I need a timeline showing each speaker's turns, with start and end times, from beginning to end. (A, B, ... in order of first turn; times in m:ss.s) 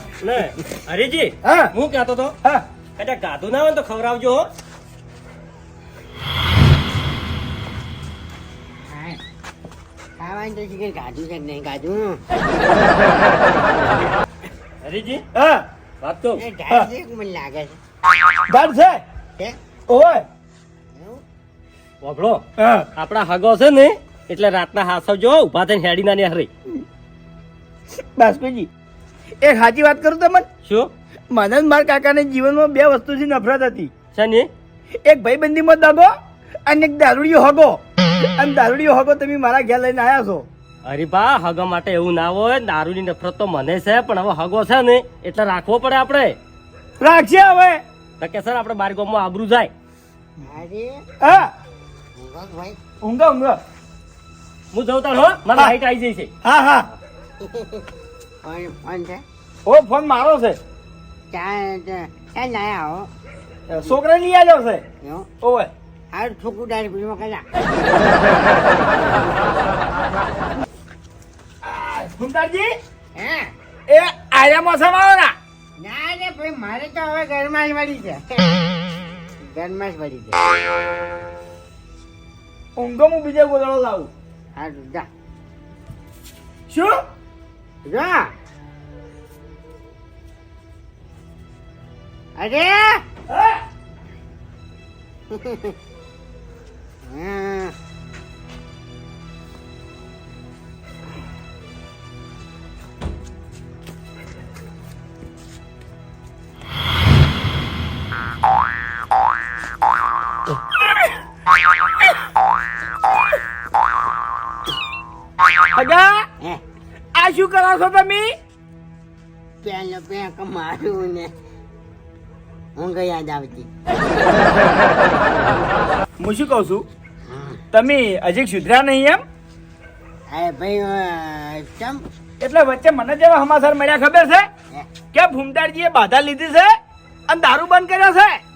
0:00.2-0:02.4 A
0:01.4-0:01.7 B
0:03.0-0:04.5 A
0:08.8-0:09.2 C
0:10.2-0:12.2 C
0:14.8-0:15.2 A
0:15.3-0:15.7 B
0:16.0-0:16.4 A
0:16.4-0:17.8 C
0:18.5-0:19.0 B
0:19.9-0:20.2 B
0:20.9-0:21.2 C
0:22.0-0:22.4 A
0:22.6-0:22.9 B
0:23.0-0:26.5 A
0:28.2-0:28.7 B
0:29.4-0:30.5 B
0:31.3-0:33.9 B
0:34.1-0:34.5 A
0:35.0-0:36.1 B
0:36.7-0:40.5 B
0:40.8-0:46.4 A
0:47.0-0:47.8 B
0:48.2-0:49.7 A
0:50.4-0:51.0 C
0:51.2-0:51.5 B
0:52.2-0:52.8 C
0:53.0-0:53.6 B
0:54.7-0:56.3 A
0:56.4-0:56.9 B
0:57.4-0:57.9 C
0:58.4-0:59.2 C
0:59.7-1:00.6 B
1:01.3-1:03.1 C
1:03.7-1:04.8 B
1:05.0-1:05.3 C
1:05.4-1:05.7 B
1:06.1-1:07.5 C
1:11.6-1:12.7 B
1:13.2-1:13.5 C
1:13.9-1:15.4 B
1:15.8-1:18.7 C
1:19.4-1:20.4 C
1:22.8-1:24.1 B
1:24.6-1:25.1 C
1:26.7-1:27.0 B
1:27.8-1:28.3 C
1:32.4-1:33.0 C
1:33.3-1:33.6 B
1:35.3-1:35.8 C
1:37.0-1:37.8 C
1:55.7-1:56.3 B
1:57.2-1:58.4 B
1:59.6-2:01.3 C
2:02.8-2:03.7 C
2:06.2-2:06.9 B
2:07.2-2:07.6 C
2:07.7-2:09.2 B
2:10.3-2:12.0 C
2:12.4-2:14.5 B
2:15.1-2:16.8 B
2:17.3-2:18.4 B